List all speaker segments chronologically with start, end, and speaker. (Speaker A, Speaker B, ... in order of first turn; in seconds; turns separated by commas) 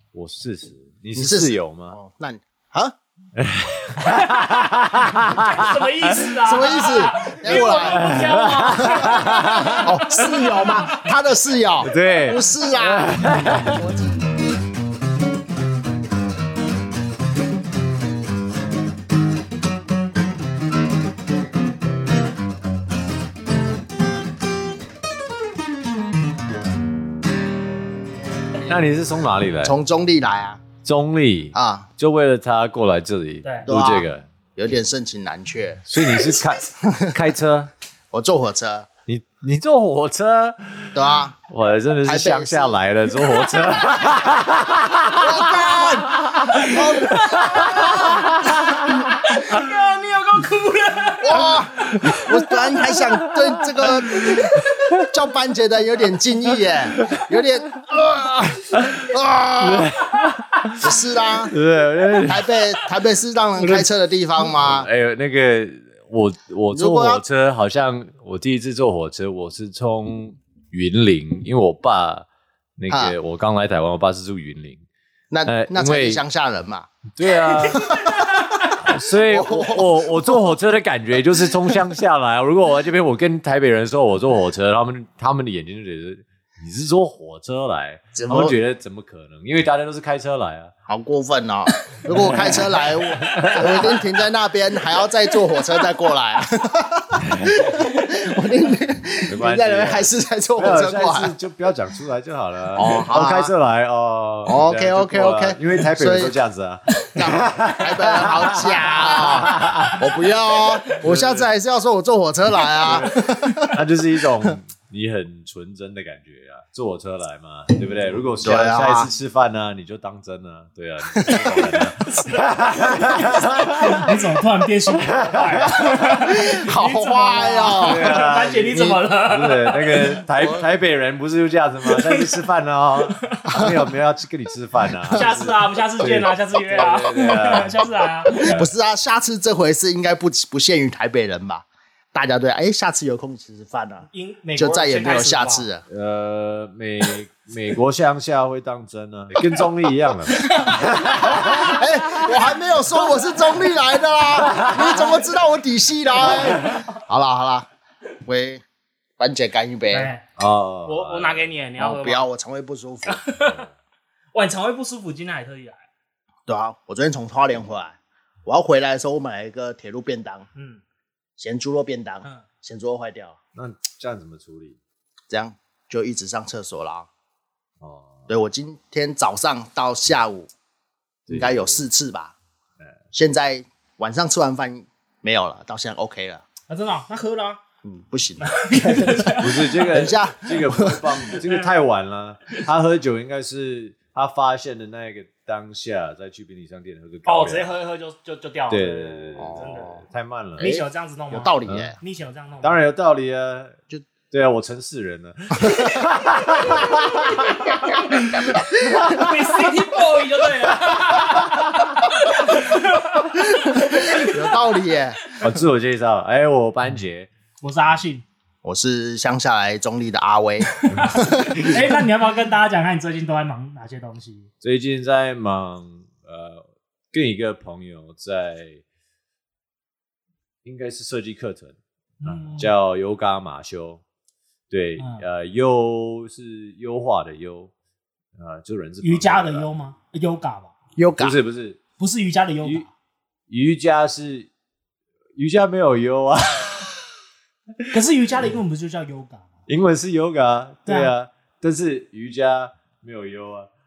Speaker A: 0.1-2.0, Speaker B: 1.1-3.0, Speaker A: 3.4-6.3, Speaker C: 4.0-4.7, Speaker C: 5.4-11.1, Speaker B: 6.4-8.2, Speaker A: 7.4-10.6, Speaker B: 9.0-13.6, Speaker A: 11.8-13.8, Speaker C: 13.7-14.1, Speaker A: 28.7-29.8, Speaker B: 29.6-30.6, Speaker A: 30.8-34.3, Speaker B: 31.6-31.9, Speaker B: 33.7-37.1, Speaker A: 35.9-37.7, Speaker B: 38.1-38.9, Speaker A: 39.1-49.6, Speaker B: 40.9-41.4, Speaker B: 42.0-42.8, Speaker C: 43.6-43.8, Speaker B: 45.1-48.2, Speaker C: 46.5-52.1, Speaker B: 51.2-54.4, Speaker A: 51.8-55.0, Speaker C: 54.3-55.0, Speaker B: 55.1-59.9, Speaker A: 57.0-57.2, Speaker A: 58.7-60.9, Speaker B: 60.8-61.5, Speaker A: 61.5-62.4, Speaker B: 62.3-64.9, Speaker A: 63.6-72.3, Speaker B: 66.7-67.2, Speaker A: 72.8-74.8, Speaker B: 75.3-76.9, Speaker A: 75.5-76.2, Speaker A: 77.2-77.9, Speaker C: 77.6-78.8, Speaker B: 77.7-78.2, Speaker A: 78.8-90.7, Speaker B: 79.2-80.3, Speaker B: 88.2-88.6, Speaker B: 90.9-101.3, Speaker C: 92.0-93.7, Speaker A: 92.1-94.0, Speaker A: 97.2-97.7, Speaker A: 99.3-110.0, Speaker B: 102.8-103.5, Speaker B: 104.5-106.3, Speaker B: 107.1-113.7, Speaker C: 109.0-110.7, Speaker A: 111.0-111.5, Speaker C: 112.7-113.7, Speaker A: 112.8-124.2, Speaker B: 118.4-119.1, Speaker B: 121.1-121.5, Speaker C: 121.3-122.4, Speaker C: 123.2-130.2, Speaker A: 124.9-126.1, Speaker B: 126.4-129.0, Speaker A: 127.8-137.8, Speaker C: 131.9-132.4, Speaker C: 133.2-133.5, Speaker B: 133.5-133.8, Speaker C: 135.1-138.6, Speaker B: 138.4-145.8, Speaker A: 138.4-138.7, Speaker C: 144.1-145.7, Speaker A: 145.9-151.8, Speaker C: 150.5-152.4, Speaker B: 151.2-157.7, Speaker C: 153.0-153.5, Speaker A: 154.4-155.0, Speaker C: 154.5-155.3, Speaker C: 156.2-156.8, Speaker B: 158.2-158.6, Speaker B: 159.2-160.1, Speaker C: 159.9-160.2, Speaker A: 160.4-161.5, Speaker C: 160.9-162.3, Speaker B: 161.8-163.2, Speaker C: 163.1-163.7, Speaker A: 163.4-163.7, Speaker C: 164.3-165.8, Speaker B: 166.5-170.5, Speaker C: 170.6-170.8, Speaker B: 171.4-173.4, Speaker A: 173.6-174.8, Speaker B: 175.3-177.1, Speaker A: 177.8-178.3, Speaker B: 178.3-180.5, Speaker A: 181.3-181.8, Speaker B: 181.3-182.3, Speaker B: 183.1-186.4, Speaker C: 186.7-187.6, Speaker B: 187.8-191.1, Speaker C: 188.5-189.9, Speaker A: 189.3-197.7, Speaker C: 191.3-191.7, Speaker C: 197.2-200.0, Speaker A: 198.7-200.7, Speaker B: 199.4-200.0, Speaker B: 200.6-202.0, Speaker C: 200.6-202.8, Speaker A: 201.7-201.9, Speaker A: 202.6-209.4, Speaker C: 208.2-214.7, Speaker B: 213.7-215.2, Speaker A: 215.3-217.3, Speaker C: 217.6-218.2, Speaker B: 218.6-221.8, Speaker C: 220.8-224.5, Speaker A: 224.6-228.8, Speaker A: 230.6-234.0, Speaker C: 232.2-232.7, Speaker A: 234.7-237.7, Speaker C: 235.0-235.2, Speaker A: 238.3-239.7, Speaker C: 239.0-240.7, Speaker B: 241.0-241.4, Speaker A: 241.2-241.8, Speaker C: 242.0-242.9, Speaker A: 243.5-244.5, Speaker A: 245.4-247.1, Speaker C: 247.9-249.4, Speaker A: 249.7-253.7, Speaker C: 250.9-251.1